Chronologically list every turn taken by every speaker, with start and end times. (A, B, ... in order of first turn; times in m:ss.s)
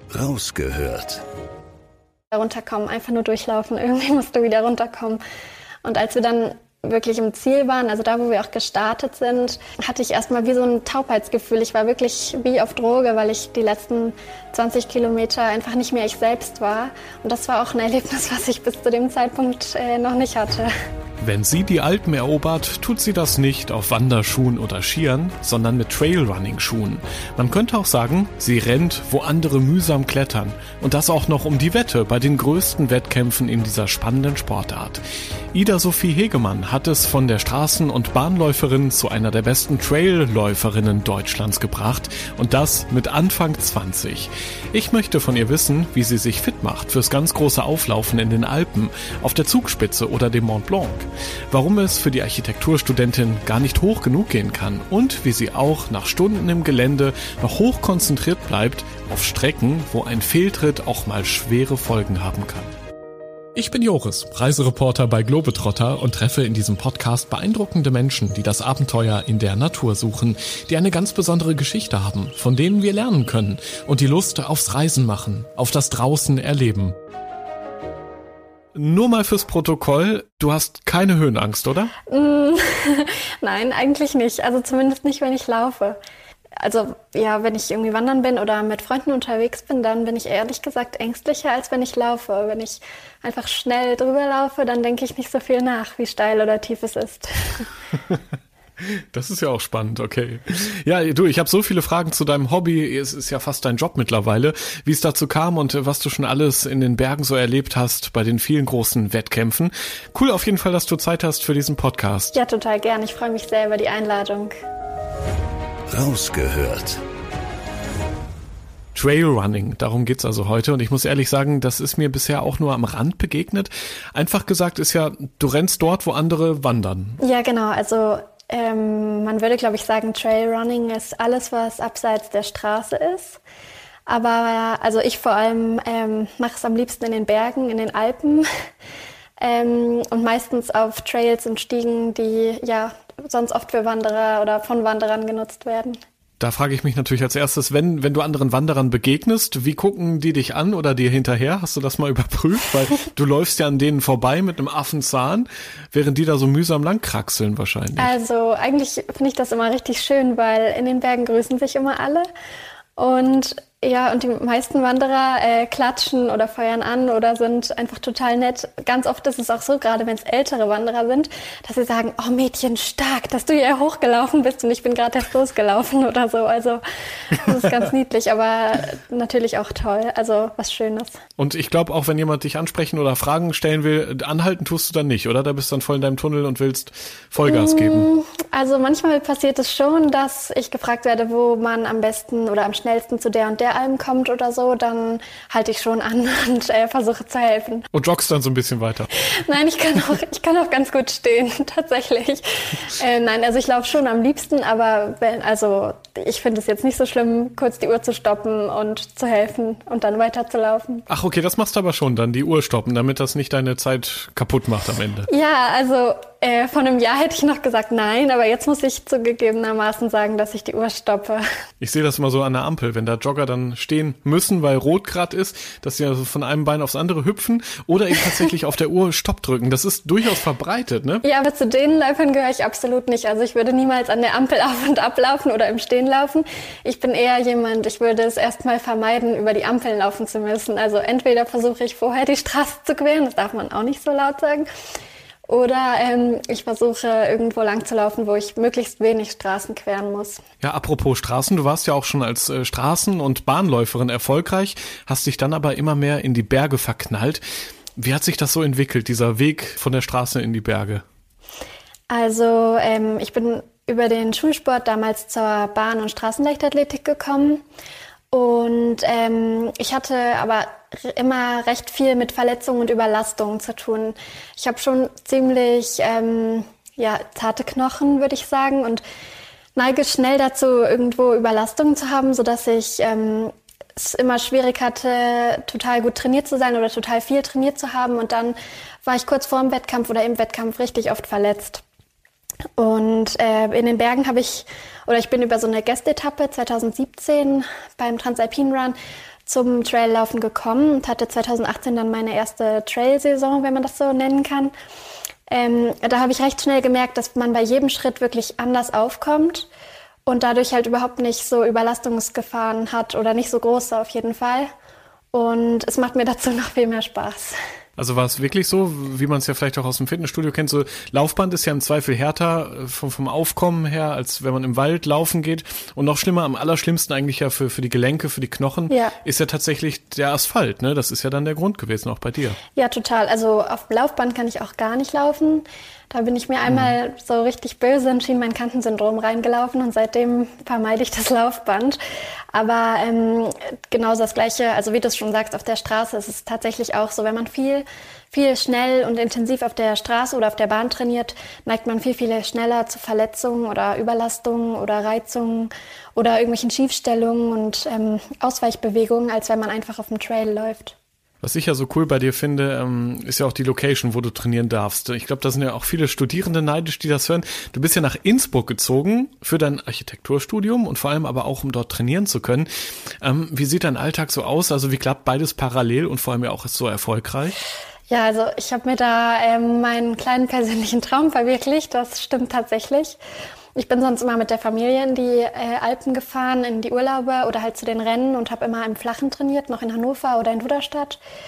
0:00.1-0:01.2 A
0:02.3-0:05.2 B
0:05.8-0:20.7 B
0:21.2-1:02.7 C
1:03.5-1:17.0 C
1:18.7-1:21.9 C
1:22.1-1:26.0 B
1:26.6-1:37.6 B
1:37.9-1:38.2 C
1:38.8-1:52.3 C
1:52.3-1:54.5 B
1:55.9-1:57.0 A
1:58.9-2:07.2 C
2:07.2-2:13.4 B
2:14.1-2:18.5 B
2:19.4-2:26.0 B
2:26.4-2:38.2 C
2:38.0-2:42.2 B
2:43.0-3:01.2 B
3:01.4-3:08.1 C
3:07.4-3:17.8 B
3:17.9-3:19.1 C
3:19.3-3:31.0 B
3:31.1-3:35.3 C
3:35.3-3:41.4 B
3:41.8-3:51.2 C
3:51.2-4:04.7 B
4:05.4-4:10.4 B
4:10.6-4:17.4 C
4:18.0-4:21.0 C
4:22.1-4:27.6 B
4:28.3-4:39.0 B
4:39.8-4:51.8 B
4:52.8-5:04.7 B
5:05.5-5:09.7 B
5:10.2-5:14.7 B
5:15.3-5:17.5 B
5:18.0-5:32.6 C
5:28.9-5:29.2 B
5:32.8-5:42.0 B
5:42.5-6:01.0 B
6:01.4-6:17.6 C
6:18.1-6:23.2 B
6:23.8-6:31.2 B